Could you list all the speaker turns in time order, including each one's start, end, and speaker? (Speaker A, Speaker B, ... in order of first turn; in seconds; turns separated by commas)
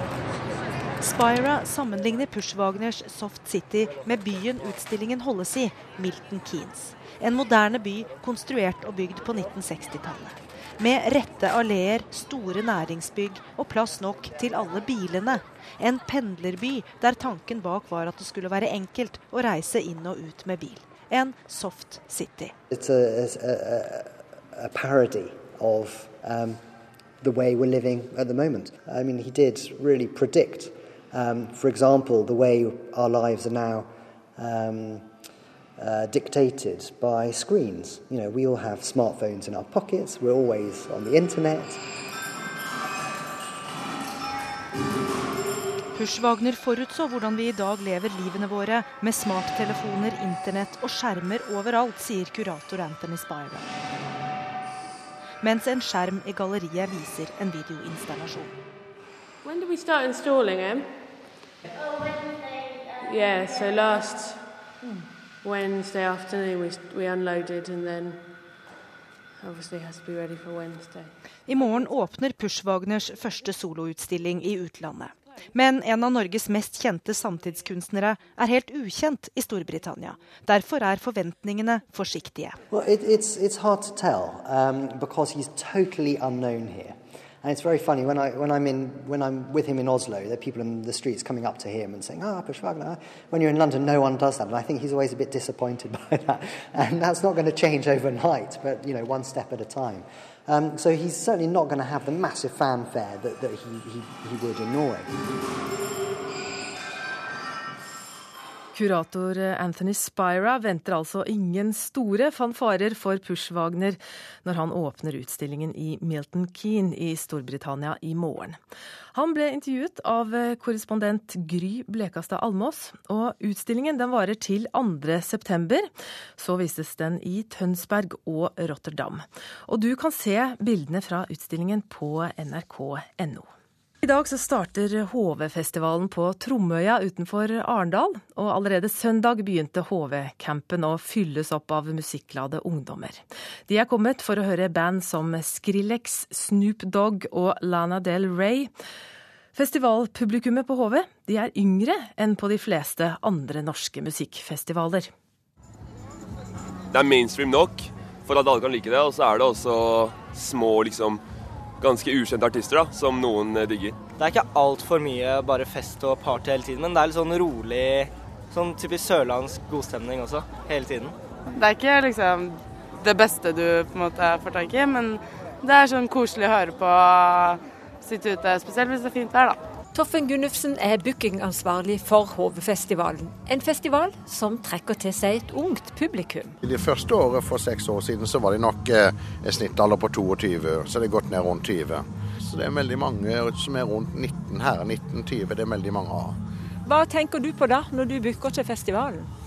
Speaker A: 1.2-3.3, Speaker A: 5.0-5.6, Speaker A: 7.2-9.0, Speaker A: 9.8-10.1, Speaker A: 11.3-13.7, Speaker A: 17.4-20.7, Speaker B: 22.7-26.6, Speaker B: 27.2-35.0, Speaker B: 35.8-41.8, Speaker A: 46.1-53.5, Speaker A: 55.4-58.5, Speaker C: 59.4-60.9, Speaker C: 63.0-68.2, Speaker C: 69.4-71.1, Speaker A: 72.0-73.0, Speaker A: 73.5-74.9, Speaker A: 75.7-77.2, Speaker A: 80.6-81.0, Speaker D: 81.3-82.3, Speaker B: 82.7-105.1, Speaker E: 108.7-118.6, Speaker E: 119.1-133.5, Speaker E: 134.0-148.7, Speaker E: 149.5-155.1, Speaker F: 156.9-161.2, Speaker F: 161.8-164.0, Speaker D: 164.2-171.2, Speaker G: 171.5-179.6, Speaker H: 179.9-186.6, Speaker I: 186.6-196.4, Speaker H: 196.8-199.3